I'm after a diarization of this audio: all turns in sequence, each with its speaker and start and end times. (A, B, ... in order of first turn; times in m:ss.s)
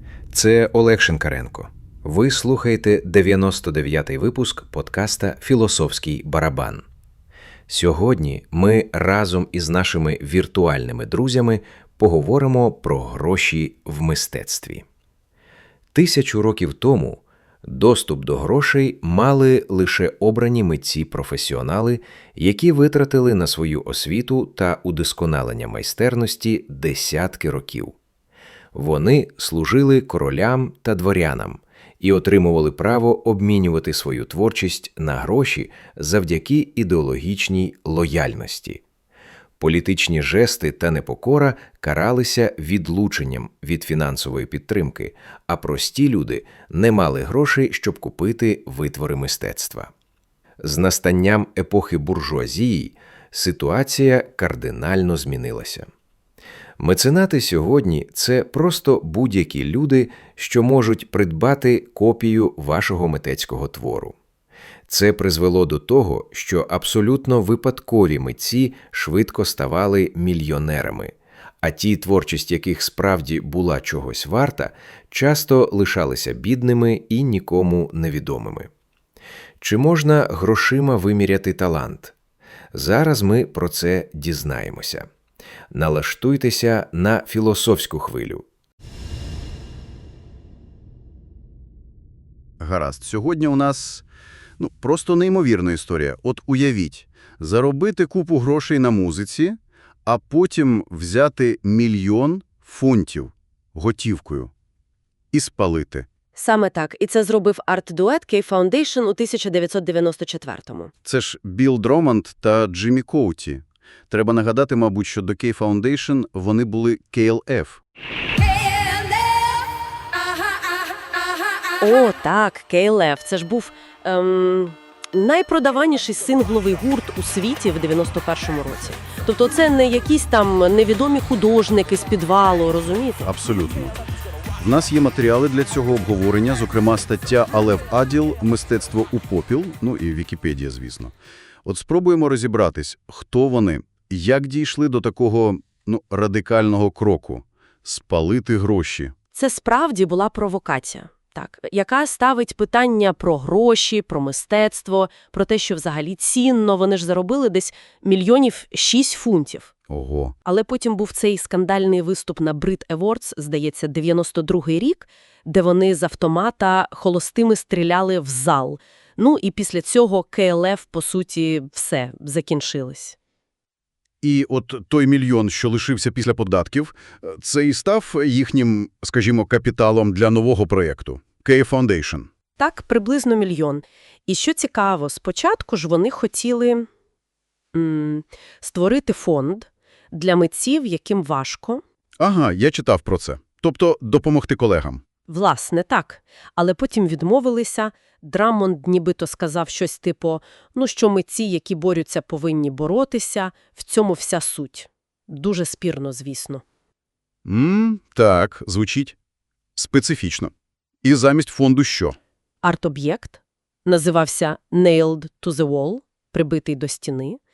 0:00.3-0:06.8 A
0:07.7-0:14.8 A
0:15.9-0:28.0 A
0:28.7-0:38.8 A
0:39.6-0:49.9 A
0:50.6-0:55.9 A
0:56.8-1:04.2 A
1:04.9-1:18.7 A
1:19.6-1:22.1 A
1:22.7-1:25.1 A
1:25.7-1:28.4 A
1:32.6-1:34.0 B
1:34.6-1:44.5 B
1:45.3-1:46.1 B
1:46.4-1:50.9 C
1:51.0-1:57.8 B
2:01.8-2:13.3 C
2:13.2-2:14.0 B
2:14.6-2:21.1 B
2:21.6-2:29.1 B
2:29.3-2:39.7 C
2:39.9-2:40.3 B
2:40.4-2:53.2 C
2:54.2-3:02.3 B
3:02.6-3:06.9 C
3:07.7-3:11.8 C
3:12.2-3:15.0 B
3:15.3-3:26.6 C
3:27.4-3:29.2 B
3:29.8-3:30.5 B
3:31.0-3:32.2 B
3:32.6-3:37.4 C